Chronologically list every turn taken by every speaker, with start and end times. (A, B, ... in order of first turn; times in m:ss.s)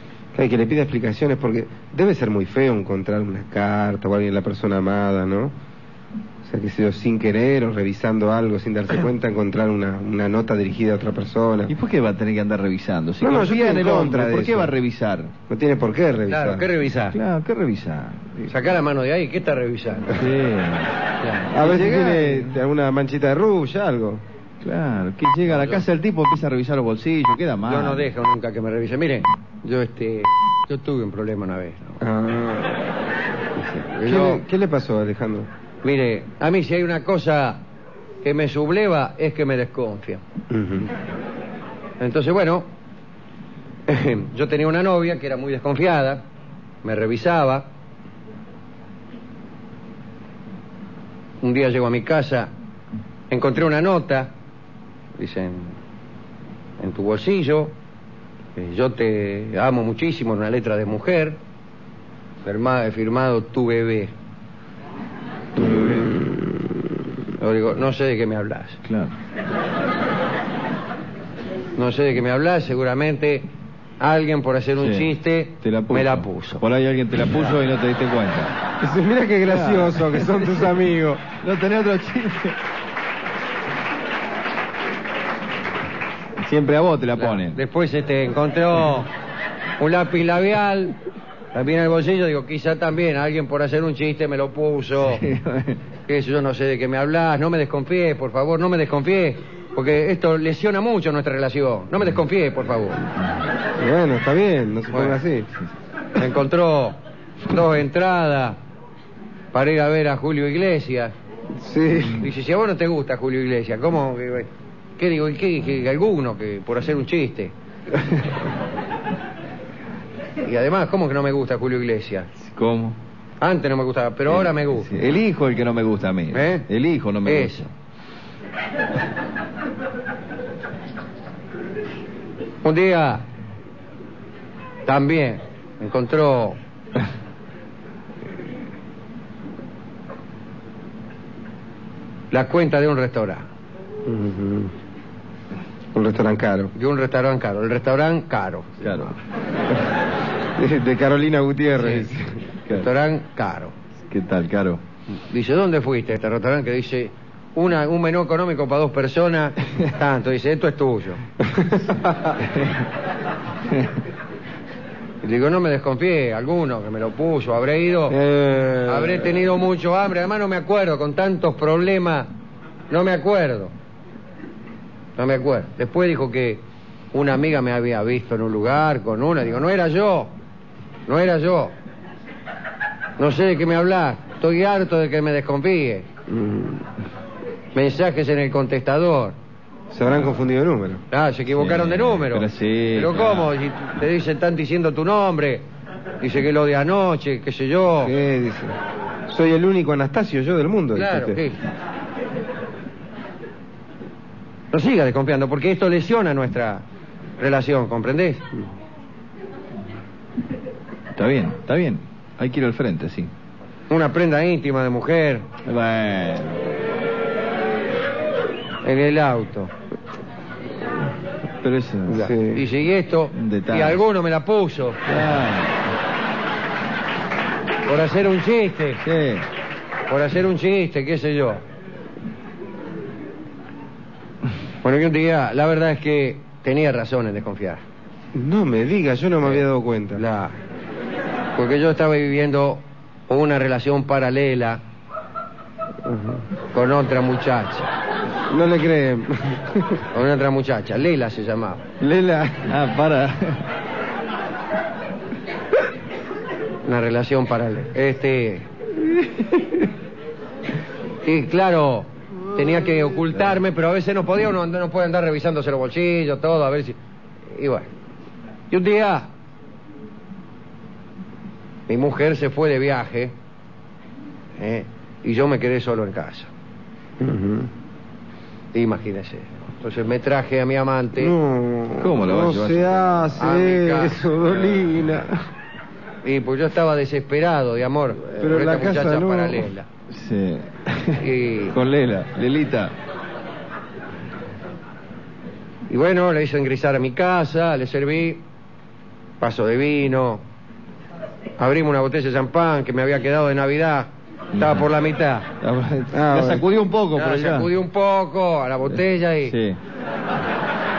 0:00.3-0:05.5 A
0:06.4-0:11.7 A
0:11.7-0:15.3 B
0:13.2-0:14.7 A
0:15.5-0:16.6 A
0:16.3-0:17.2 C
0:17.1-0:18.5 B
0:18.5-0:20.3 C
0:20.2-0:21.0 B
0:21.2-0:21.5 C
0:21.5-0:22.6 B
0:21.5-0:24.2 A
0:24.6-0:28.1 B
0:25.4-0:25.8 C
0:27.6-0:32.0 C
0:32.0-0:32.8 A
0:33.6-0:34.4 C
0:34.0-0:35.5 A
0:35.8-0:37.6 C
0:38.2-0:40.2 C
0:40.5-0:40.9 A
0:42.0-0:42.6 C
0:43.9-0:46.2 C
0:46.8-0:47.7 C
0:51.4-0:52.5 C
0:53.3-0:54.3 C
0:55.2-0:55.7 C
0:56.8-0:57.7 C
0:58.6-1:01.4 C
1:02.4-1:04.1 C
1:05.6-1:06.7 A
1:07.4-1:08.8 C
1:08.8-1:09.1 B
1:11.8-1:13.5 C
1:14.0-1:16.6 C
1:14.8-1:15.1 B
1:15.6-1:18.5 B
1:18.8-1:21.2 A
1:19.4-1:20.7 B
1:21.4-1:22.6 B
1:26.4-1:27.6 B
1:27.2-1:29.1 C
1:29.8-1:31.0 C
1:31.5-1:35.2 C
1:35.0-1:35.8 B
1:36.1-1:43.0 C
1:43.8-1:45.5 A
1:44.9-1:45.2 C
1:46.2-1:48.6 C
1:49.5-1:51.1 C
1:51.6-1:52.3 A
1:52.1-1:57.5 C
2:00.4-2:02.3 C
2:02.5-2:03.0 B
2:03.4-2:04.9 C
2:04.3-2:07.5 B
2:06.3-2:06.7 C
2:07.2-2:07.7 C
2:12.6-2:13.2 C
2:14.8-2:16.6 C
2:22.3-2:23.5 C
2:24.0-2:24.7 A
2:25.9-2:26.7 A
2:26.7-2:29.1 C
2:28.8-2:29.1 B
2:30.6-2:32.4 A
2:32.7-2:33.7 C
2:34.1-2:34.8 B
2:35.3-2:41.2 C
2:41.5-2:42.4 A
2:42.4-2:42.8 B
2:45.2-2:48.2 C
2:48.1-2:49.4 A
2:48.8-2:52.3 C
2:52.9-2:53.7 C
2:55.2-2:56.6 C
2:57.1-3:00.3 C
3:01.1-3:01.7 C
3:03.2-3:06.1 C
3:06.3-3:06.8 A
3:07.7-3:09.3 C
3:09.9-3:11.0 A
3:11.1-3:15.6 C
3:11.5-3:13.5 B
3:16.2-3:18.1 C
3:18.0-3:18.7 A
3:19.3-3:21.4 A
3:20.9-3:21.6 C
3:24.7-3:26.8 C
3:27.4-3:28.4 C
3:31.2-3:33.3 B
3:33.9-3:35.4 C
3:35.6-3:36.6 B
3:38.8-3:39.7 C
3:41.6-3:42.3 B
3:42.1-3:42.6 A
3:42.2-3:45.0 C
3:43.3-3:44.0 B
3:45.1-3:45.8 B
3:47.8-3:49.0 C
3:49.0-3:49.4 B
3:50.1-3:51.6 C
3:54.8-3:57.8 C
3:58.3-4:00.2 A
4:00.2-4:00.6 C
4:01.6-4:04.8 C
4:06.0-4:06.4 A
4:06.7-4:07.9 C
4:08.5-4:10.0 A
4:10.1-4:11.8 C
4:12.0-4:12.7 A
4:12.6-4:13.6 B
4:16.8-4:18.7 C
4:19.4-4:19.7 A
4:21.2-4:27.0 C
4:27.5-4:27.9 C
4:28.7-4:29.3 C
4:31.9-4:33.3 C
4:34.6-4:36.5 C
4:37.2-4:37.7 A
4:38.7-4:41.3 C
4:41.2-4:45.4 A
4:42.0-4:43.4 B
4:43.4-4:44.2 C
4:46.2-4:49.9 C
4:48.3-4:49.7 A
4:50.1-4:52.9 B
4:51.2-4:51.8 C
4:55.9-4:58.4 C
4:59.4-5:00.4 C
5:01.6-5:05.4 C
5:04.5-5:04.9 B
5:05.6-5:07.7 B
5:06.1-5:06.6 A
5:07.1-5:09.6 C
5:09.4-5:09.8 B